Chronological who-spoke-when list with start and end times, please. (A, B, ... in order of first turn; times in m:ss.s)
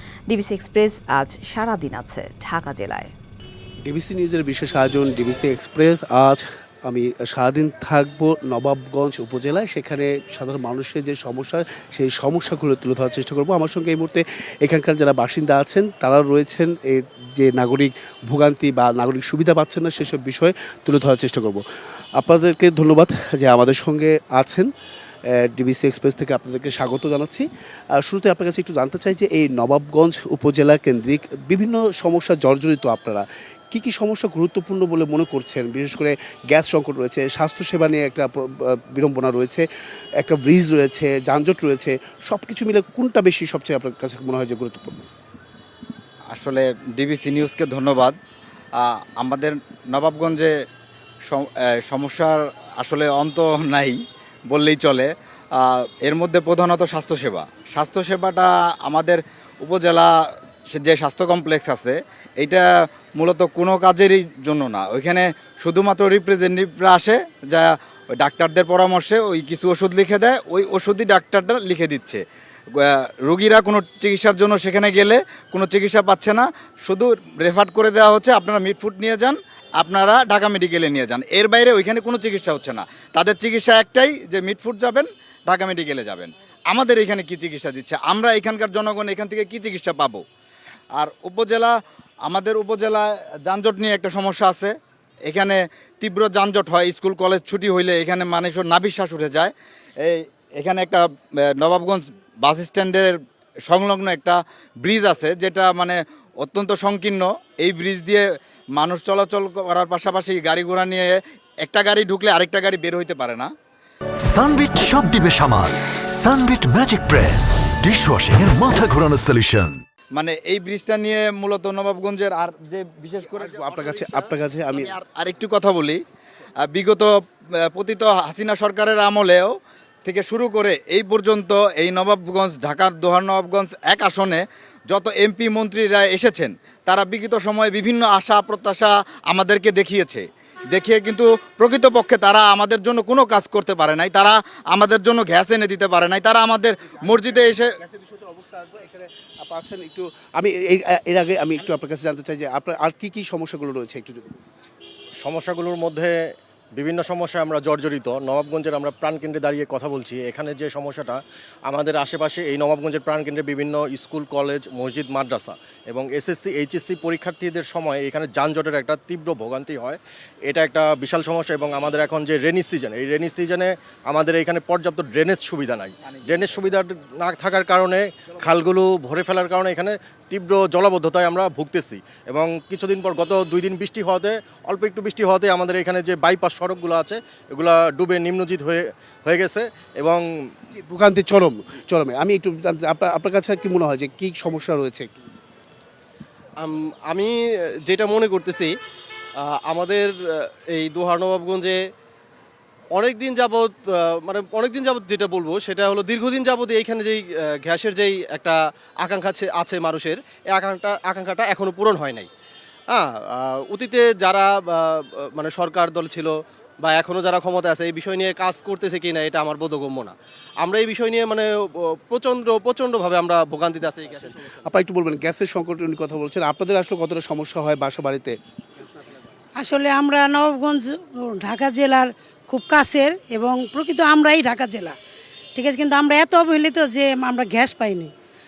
0:00.3-0:03.1 A
0:03.8-0:21.6 B
0:22.2-0:24.7 B
0:25.3-0:27.4 B
0:28.0-0:39.6 B
0:40.2-0:45.1 B
0:46.3-0:48.2 C
0:48.8-0:50.5 C
0:51.3-0:54.0 C
0:54.5-1:00.1 C
1:00.7-1:12.2 C
1:12.8-1:30.2 C
1:31.0-1:31.7 C
1:32.3-1:34.7 C
1:35.3-1:41.0 C
1:41.6-1:48.2 C
1:48.8-1:53.5 C
1:54.2-1:59.8 D
2:00.2-2:06.0 C
2:03.3-2:05.0 B
2:06.7-2:07.1 C
2:07.6-2:09.5 C
2:10.0-2:27.7 C
2:27.0-2:34.4 B
2:35.2-2:36.2 E
2:36.7-3:10.2 E
3:10.7-3:15.2 B
3:16.6-3:17.3 F
3:17.9-3:18.7 F
3:19.4-3:21.8 F
3:23.0-3:32.3 F
3:32.9-3:41.5 F
3:42.0-3:44.3 F
3:44.4-3:48.4 B
3:49.6-3:55.0 G
3:55.6-3:58.1 G